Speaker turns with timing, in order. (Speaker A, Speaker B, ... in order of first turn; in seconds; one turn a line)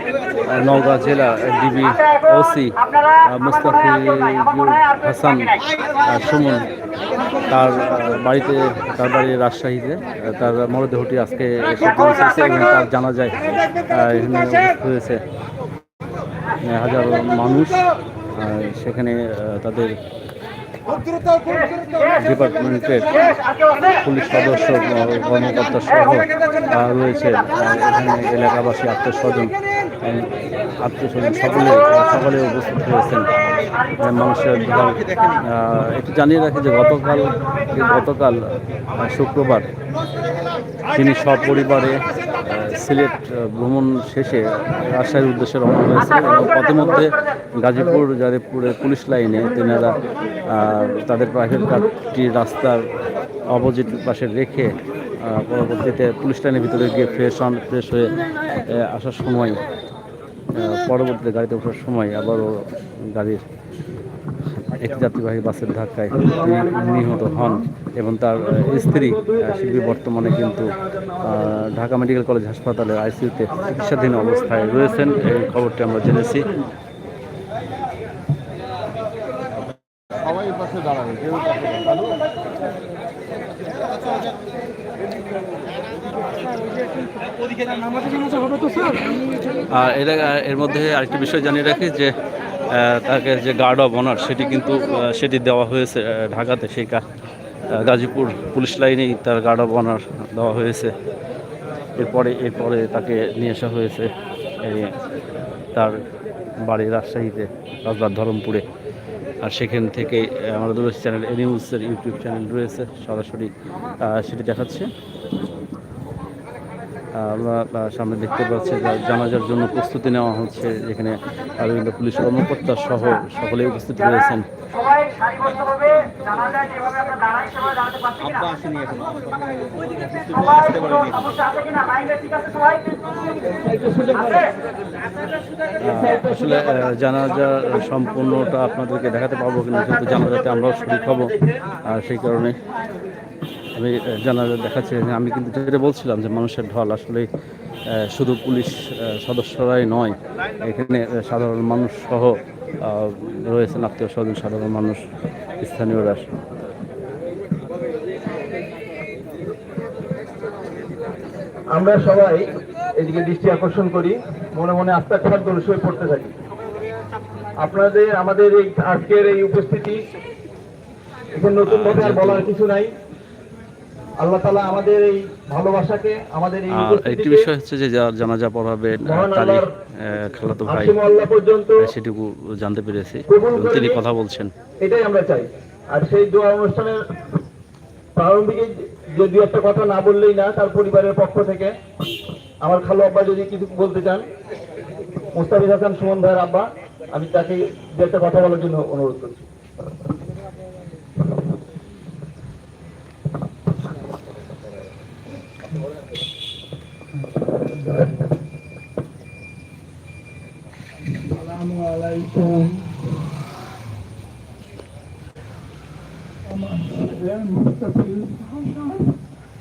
Speaker A: 0.4-6.7
Speaker A: 7.5-15.2
Speaker A: 16.6-17.8
Speaker A: 18.3-20.0
Speaker A: 21.5-39.7
Speaker A: 40.9-52.9
Speaker A: 53.5-59.6
Speaker A: 60.5-63.4
Speaker A: 64.7-76.6
Speaker B: 66.2-67.6
Speaker B: 68.5-69.7
Speaker A: 89.7-92.1
Speaker A: 92.7-97.0
Speaker A: 97.7-100.9
Speaker A: 102.0-104.9
Speaker A: 105.7-106.0
Speaker A: 106.6-108.7
Speaker A: 109.4-114.9
Speaker A: 117.1-124.5
Speaker C: 125.0-128.0
Speaker A: 128.2-129.2
Speaker A: 130.3-131.4
Speaker C: 131.4-132.6
Speaker B: 133.8-134.2
Speaker A: 135.8-142.6
Speaker A: 143.8-147.3
Speaker A: 147.9-155.0
Speaker A: 155.6-156.3
Speaker B: 161.7-166.3
Speaker B: 167.6-170.0
Speaker B: 171.3-172.9
Speaker A: 171.6-172.5
Speaker B: 174.2-177.5
Speaker A: 176.7-181.0
Speaker B: 179.1-179.7
Speaker B: 180.7-181.8
Speaker A: 181.8-184.5
Speaker B: 183.3-184.0
Speaker B: 184.8-187.0
Speaker B: 188.2-191.7
Speaker B: 192.6-194.2
Speaker B: 195.3-199.5
Speaker D: 207.8-208.1
Speaker D: 211.1-213.2
Speaker D: 216.4-219.2